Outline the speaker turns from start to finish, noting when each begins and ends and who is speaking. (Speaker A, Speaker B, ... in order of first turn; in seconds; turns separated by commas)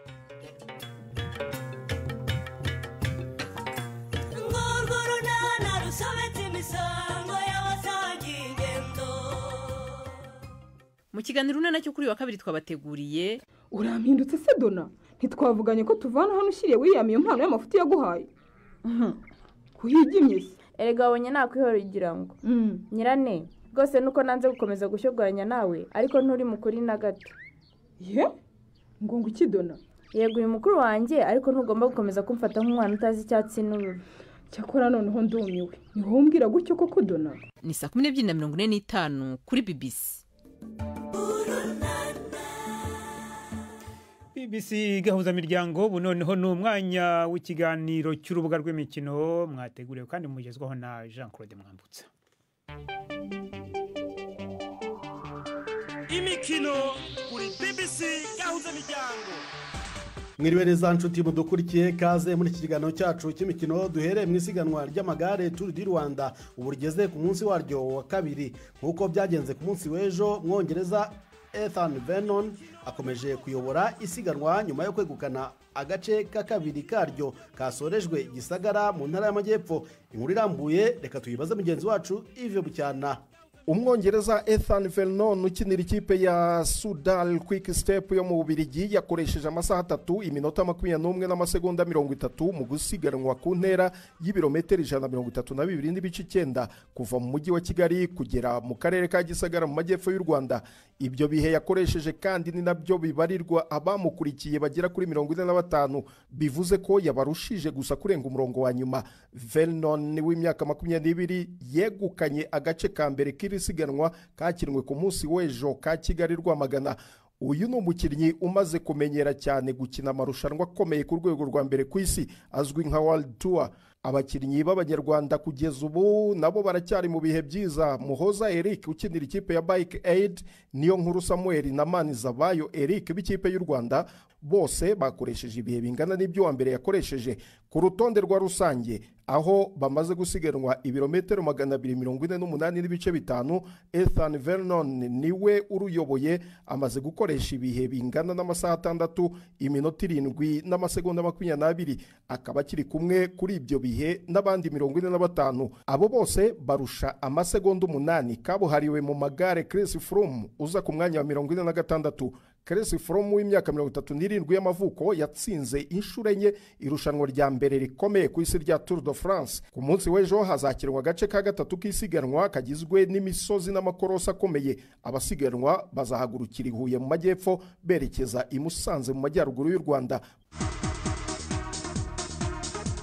Speaker A: 11.1-13.4, Speaker B: 13.7-18.3, Speaker C: 18.9-19.2, Speaker B: 19.8-20.6, Speaker C: 20.8-22.4, Speaker B: 22.4-22.8, Speaker C: 22.9-27.3, Speaker B: 28.0-28.4, Speaker B: 29.0-29.8, Speaker C: 30.1-34.0, Speaker B: 34.5-37.4, Speaker A: 37.6-40.2, Speaker D: 44.4-52.1, Speaker E: 56.1-59.4, Speaker F: 60.4-83.2, Speaker G: 83.7-180.2